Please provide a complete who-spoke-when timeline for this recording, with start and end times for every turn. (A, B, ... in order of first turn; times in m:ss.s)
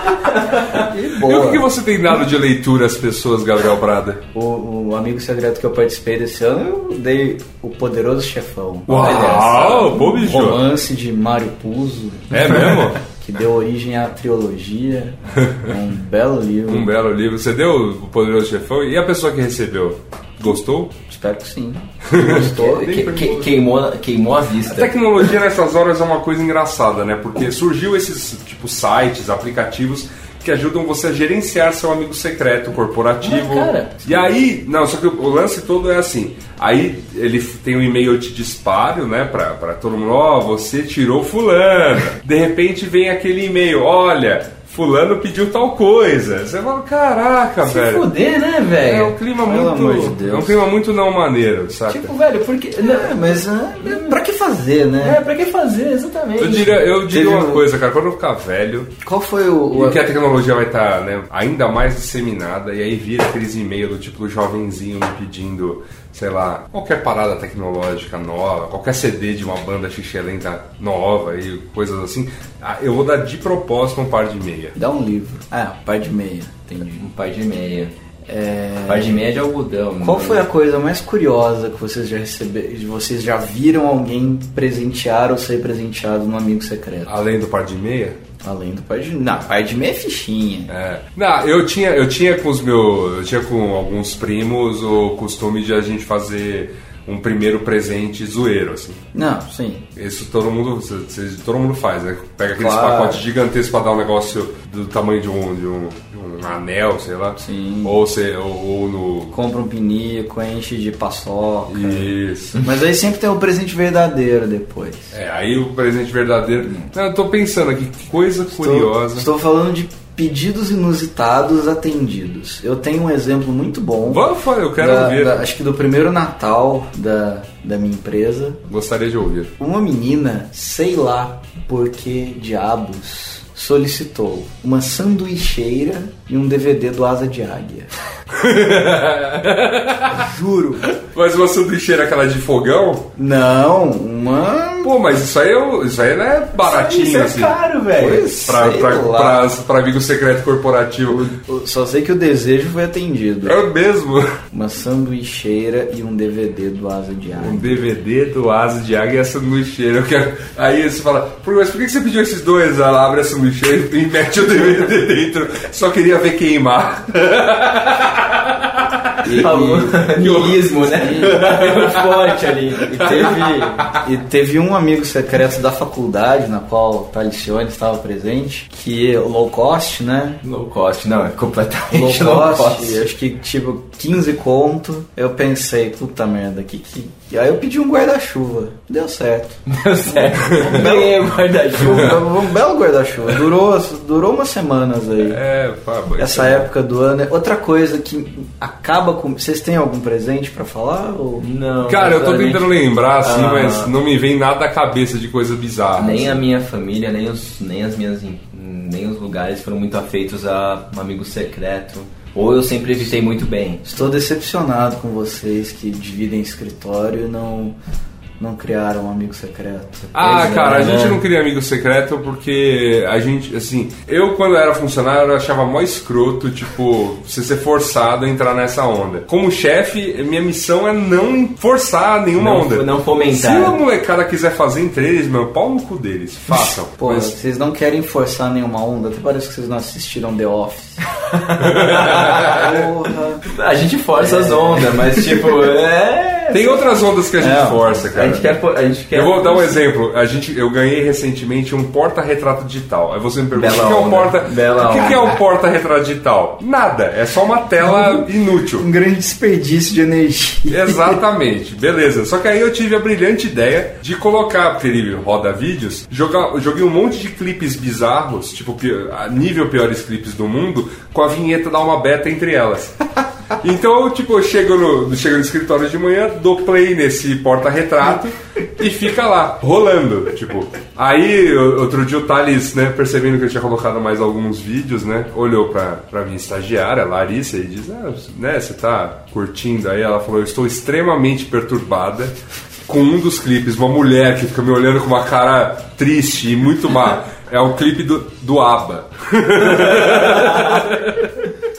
0:00.6-0:01.7 A
0:01.2-0:04.2 B
0:04.3-0:16.9 A
0:08.9-0:10.6 B
0:08.9-0:10.0 C
0:12.3-0:13.0 B
0:16.7-0:21.0 B
0:21.1-0:23.2 A
0:22.1-0:23.5 B
0:22.2-0:24.9 C
0:24.6-0:48.0 B
0:33.2-0:34.3 C
0:47.6-0:49.2 C
0:48.8-0:52.1 B
0:49.4-0:50.6 A
0:51.9-0:54.2 C
0:52.8-0:55.2 A
0:55.0-0:56.8 C
0:56.4-0:58.9 B
0:57.1-0:57.6 A
0:59.0-1:00.0 A
0:59.7-1:14.8 B
1:14.8-1:17.0 A
1:16.9-1:17.9 C
1:18.3-1:19.2 A
1:18.8-1:20.4 C
1:20.0-1:27.1 A
1:27.0-1:28.2 B
1:28.4-1:30.7 A
1:30.7-1:39.0 B
1:39.1-1:39.8 A
1:40.0-1:49.3 B
1:42.5-1:43.2 A
1:47.4-1:48.0 A
1:49.3-1:55.1 A
1:51.7-1:52.6 B
1:55.1-1:59.3 B
1:58.5-2:04.2 A
2:04.0-2:05.4 B
2:04.8-2:08.6 A
2:08.7-2:09.5 B
2:09.6-2:17.9 A
2:18.3-2:20.3 B
2:20.1-2:20.9 A
2:20.8-2:23.1 B
2:23.2-2:24.9 A
2:24.8-2:31.2 B
2:26.6-2:28.3 C
2:28.0-2:29.5 A
2:31.1-2:33.6 A
2:33.4-2:34.3 B
2:34.5-2:37.9 A
2:37.4-2:49.2 B
2:49.2-2:51.4 A
2:49.3-2:53.9 C
2:50.2-2:50.7 B
2:51.2-2:52.2 B
2:53.0-2:53.8 B
2:53.1-3:00.4 A
3:00.4-3:03.0 C
3:01.9-3:15.4 A
3:09.7-3:12.3 C
3:15.2-3:16.7 B
3:16.2-3:21.4 A
3:21.4-3:23.9 C
3:21.8-3:26.4 B
3:26.0-3:33.8 C
3:33.8-3:37.8 A
3:38.4-3:40.1 A
3:40.1-3:57.4 B
3:40.2-3:41.2 C
3:52.4-3:53.8 C
3:56.5-4:01.0 A
4:01.3-4:02.7 C
4:01.6-4:02.7 B
4:02.3-4:03.4 A
4:03.4-4:06.9 C
4:04.2-4:05.5 A
4:06.5-4:08.5 B
4:07.4-4:08.0 A
4:08.1-4:09.8 C
4:09.1-4:18.9 B
4:13.5-4:15.4 C
4:17.8-4:18.2 A
4:18.8-4:21.2 A
4:20.7-4:33.0 B
4:33.6-5:01.4 B
4:59.6-5:00.9 C